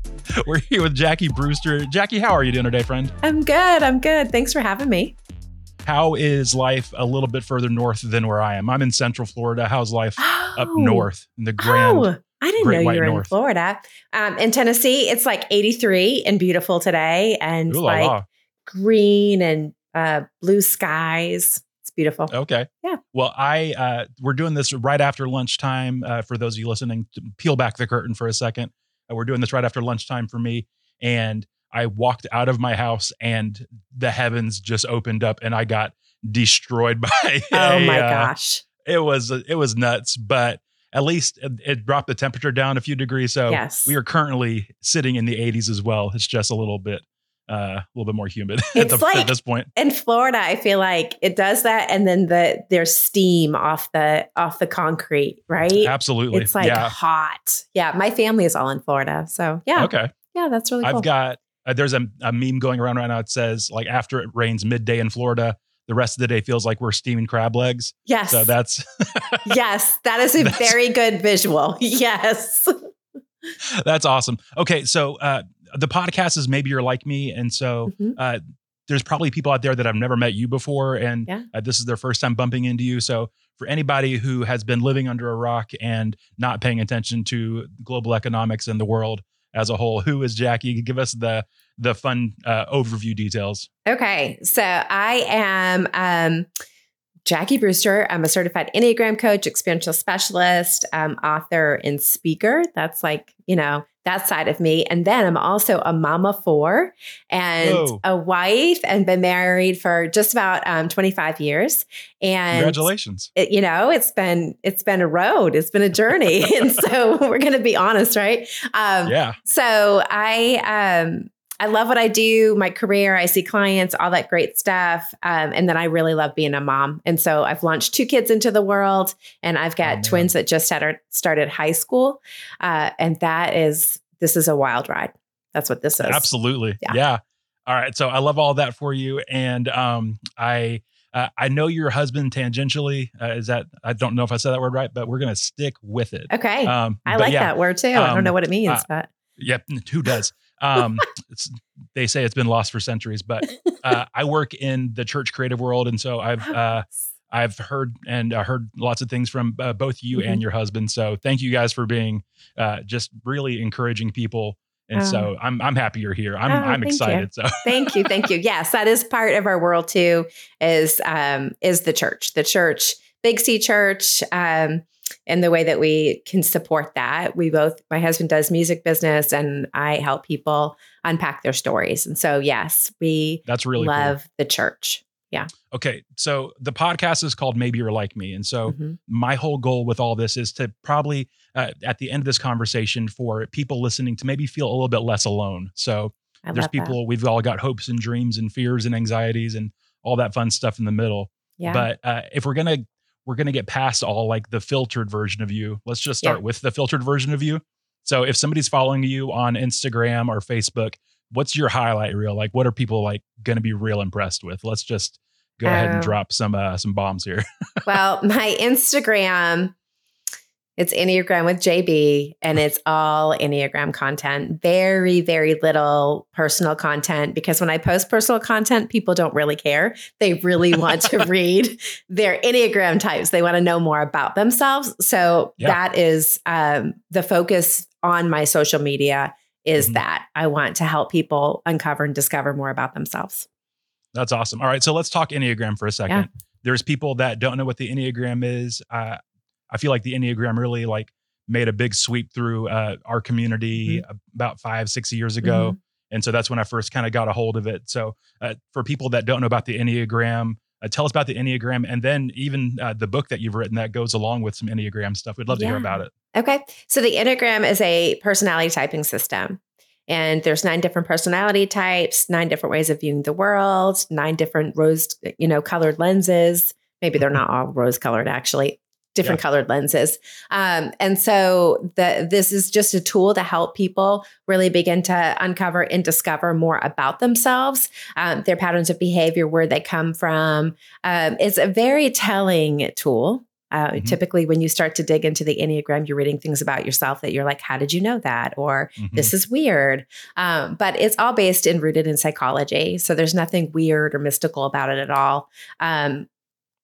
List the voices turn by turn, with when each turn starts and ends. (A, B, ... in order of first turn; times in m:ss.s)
0:00.4-0:03.1 A
0:03.2-0:05.2 B
0:05.8-0:13.3 A
0:10.2-0:11.1 B
0:11.6-0:18.1 B
0:17.7-0:18.2 A
0:18.6-0:22.3 B
0:22.3-0:38.3 A
0:37.5-0:38.6 B
0:38.8-0:49.7 A
0:43.5-0:43.9 B
0:48.7-1:01.1 B
0:55.7-0:56.9 A
0:59.8-1:00.1 A
1:00.8-1:09.5 A
1:08.1-1:08.5 B
1:09.4-1:12.8 B
1:10.4-1:10.7 A
1:13.8-1:33.7 A
1:17.9-1:18.2 B
1:33.8-1:36.5 B
1:37.2-1:52.8 B
1:47.6-1:48.0 A
1:52.5-1:53.3 A
1:53.4-2:16.3 B
1:59.0-1:59.4 A
2:09.8-2:10.3 A
2:16.0-2:28.8 A
2:26.3-2:29.1 B
2:29.4-2:48.2 A
2:40.1-2:40.4 B
2:44.9-2:45.3 B
2:46.5-3:05.5 B
3:03.4-3:04.2 A
3:05.7-3:37.4 A
3:08.7-3:09.0 B
3:16.4-3:16.9 B
3:21.6-3:21.9 B
3:35.6-3:36.2 B
3:37.8-3:39.7 B
3:40.8-4:03.5 B
4:04.1-4:26.1 A
4:15.4-4:15.7 B
4:25.5-5:06.3 B
4:59.0-4:59.3 A